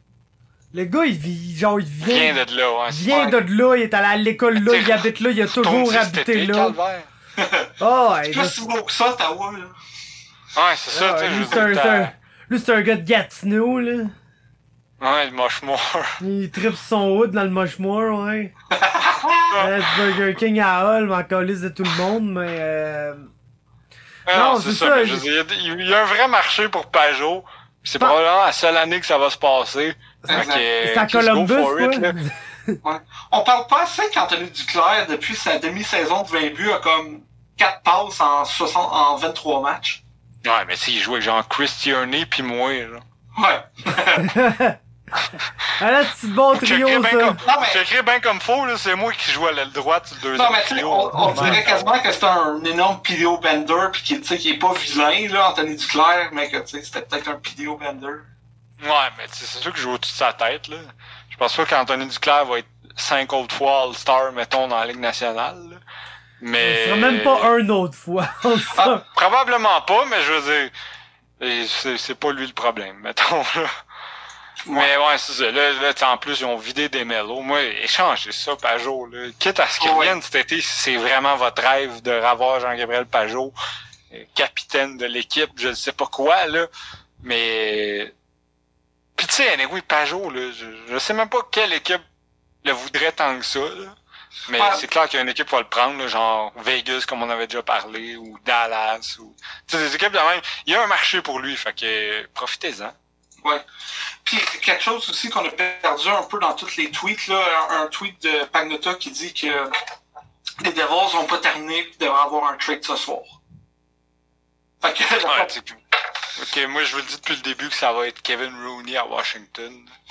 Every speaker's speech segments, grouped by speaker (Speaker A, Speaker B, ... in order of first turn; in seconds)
Speaker A: 0.7-6.8, 7.8-8.6, 10.9-14.1, 16.2-18.5, 19.6-23.3, 24.3-25.3, 30.2-32.8, 44.2-44.8, 45.8-47.4, 51.2-51.6, 66.6-69.0
Speaker B: 2.0-3.1, 4.5-7.1, 10.6-12.1, 15.0-16.2, 19.5-19.8, 24.3-32.1, 40.4-43.0, 46.5-52.0, 58.8-65.8, 66.4-67.5, 69.0-70.7, 71.4-73.7, 74.7-83.5, 84.1-86.7, 87.2-88.1, 89.2-92.0, 92.6-94.0, 94.5-103.0, 115.2-115.8, 116.3-119.9
Speaker C: 3.1-3.4, 7.4-7.7, 8.3-9.7, 18.7-19.6, 30.3-30.6, 32.8-40.0, 43.4-44.3, 47.4-47.8, 50.4-58.3, 74.7-74.9, 79.8-80.2, 94.5-94.8, 104.2-109.7, 110.6-113.3, 114.8-115.5